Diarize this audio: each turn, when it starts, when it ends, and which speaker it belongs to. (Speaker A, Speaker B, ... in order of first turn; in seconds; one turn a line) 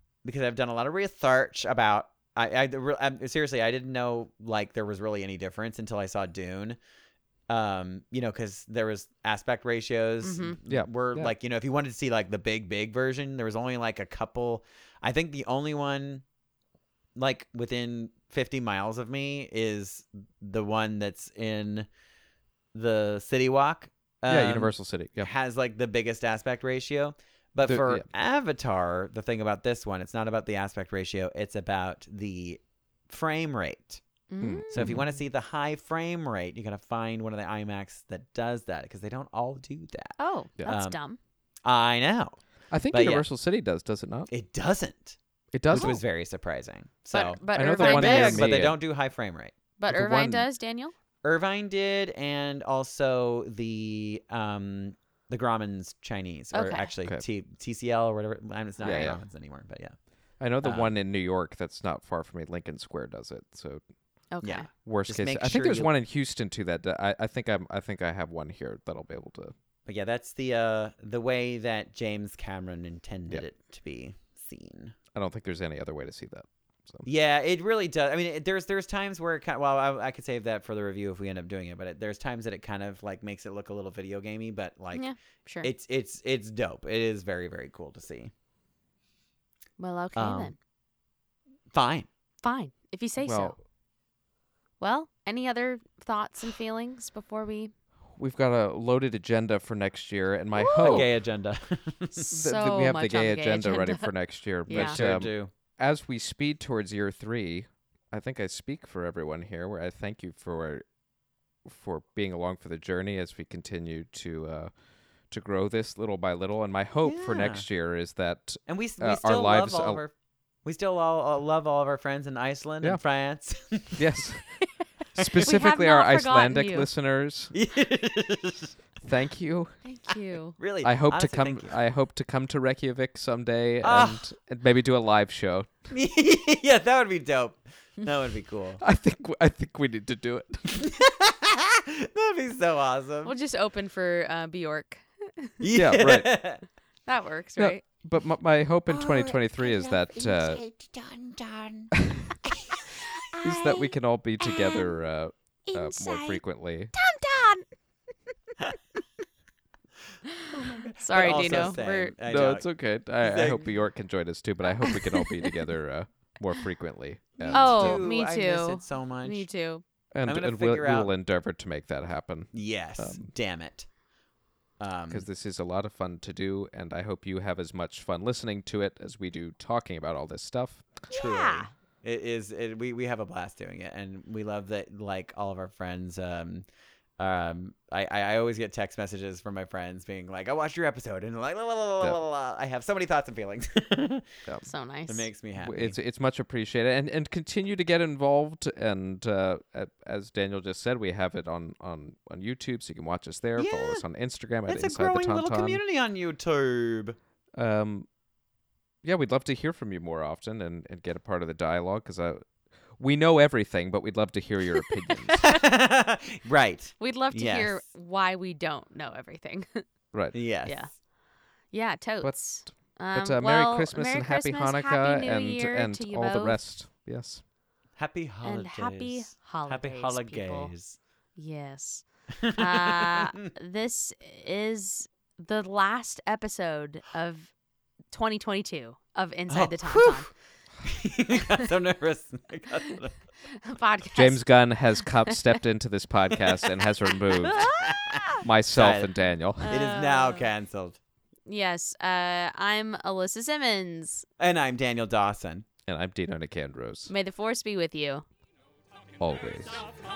Speaker A: 0.2-6.8
Speaker A: 7.5-16.2
Speaker B: 10.2-10.6
Speaker C: 10.7-11.3
Speaker A: 17.1-21.9
Speaker A: 22.7-34.0
Speaker C: 24.3-25.3
Speaker C: 27.7-28.1
Speaker B: 34.3-35.1
Speaker C: 34.4-35.0
Speaker A: 34.7-41.0
Speaker B: 40.2-41.2
Speaker A: 41.6-42.4
Speaker C: 42.7-44.3
Speaker A: 42.9-43.2
Speaker A: 44.3-45.2
Speaker C: 45.5-46.0
Speaker A: 45.7-49.6
Speaker B: 45.7-46.0
Speaker B: 47.1-48.6
Speaker C: 47.5-48.8
Speaker B: 49.8-50.9
Speaker C: 49.9-50.5
Speaker A: 51.2-60.0
Speaker B: 56.5-56.9
Speaker C: 58.8-59.2
Speaker C: 60.4-63.8
Speaker A: 60.6-60.9
Speaker B: 64.3-64.7
Speaker A: 64.4-65.9
Speaker C: 64.8-69.5
Speaker A: 69.9-75.0
Speaker C: 75.1-77.1
Speaker A: 77.0-85.1
Speaker B: 84.9-85.7
Speaker A: 85.6-88.3
Speaker B: 89.8-90.6
Speaker A: 90.2-90.5
Speaker A: 91.7-92.1
Speaker B: 92.4-93.6
Speaker C: 93.2-93.5
Speaker B: 94.8-97.7
Speaker C: 98.2-101.1
Speaker B: 100.6-101.1
Speaker A: 100.8-102.3
Speaker B: 102.3-104.1
Speaker C: 102.3-110.8
Speaker B: 104.7-105.0
Speaker A: 104.7-105.5
Speaker C: 111.7-114.7
Speaker C: 115.3-120.0
Speaker A: 117.0-117.7
Speaker A: 118.7-124.3
Speaker C: 124.0-124.6
Speaker C: 125.2-127.5
Speaker B: 125.3-126.9
Speaker A: 127.5-128.8
Speaker C: 129.0-129.8
Speaker B: 129.8-130.6
Speaker A: 130.6-131.8
Speaker C: 130.8-135.7
Speaker A: 133.8-134.3
Speaker A: 135.9-138.8
Speaker C: 138.8-140.9
Speaker A: 140.8-143.3
Speaker B: 143.2-145.6
Speaker A: 145.6-146.6
Speaker C: 145.7-146.4
Speaker B: 147.1-147.8
Speaker C: 147.6-150.6
Speaker A: 148.9-153.8
Speaker C: 152.0-152.3
Speaker C: 153.4-156.9
Speaker B: 154.5-154.9
Speaker B: 155.7-156.4
Speaker B: 156.9-157.7
Speaker B: 160.3-162.1
Speaker A: 160.5-162.7
Speaker C: 162.3-168.0
Speaker A: 163.2-163.7
Speaker B: 164.8-165.3
Speaker A: 167.4-169.5
Speaker B: 167.5-169.8
Speaker C: 170.1-173.3
Speaker A: 170.3-171.1
Speaker A: 172.5-173.9
Speaker A: 174.8-175.3
Speaker C: 175.1-180.9
Speaker B: 181.1-181.7
Speaker A: 181.1-186.7
Speaker A: 187.2-194.3
Speaker B: 194.7-195.3
Speaker A: 195.1-196.0
Speaker C: 195.6-205.8
Speaker A: 203.6-204.1
Speaker A: 204.7-207.2
Speaker C: 207.6-208.1
Speaker C: 209.0-212.5
Speaker C: 213.0-215.4
Speaker A: 215.3-217.8
Speaker B: 217.0-219.9
Speaker A: 220.3-220.9
Speaker B: 220.6-221.0
Speaker B: 221.7-226.6
Speaker C: 222.2-227.4
Speaker A: 228.0-231.0
Speaker B: 228.4-230.7
Speaker B: 231.4-237.5
Speaker A: 232.3-233.3
Speaker B: 238.1-240.3
Speaker A: 239.5-240.3
Speaker A: 240.8-243.1
Speaker B: 243.6-244.4
Speaker C: 244.2-247.7
Speaker B: 245.3-245.5
Speaker B: 247.3-248.4
Speaker A: 247.6-249.1
Speaker C: 248.4-249.8
Speaker B: 249.6-250.5
Speaker A: 249.6-251.0
Speaker B: 251.5-254.2
Speaker A: 254.4-255.7
Speaker C: 255.9-257.1
Speaker B: 257.1-258.2
Speaker C: 259.2-259.9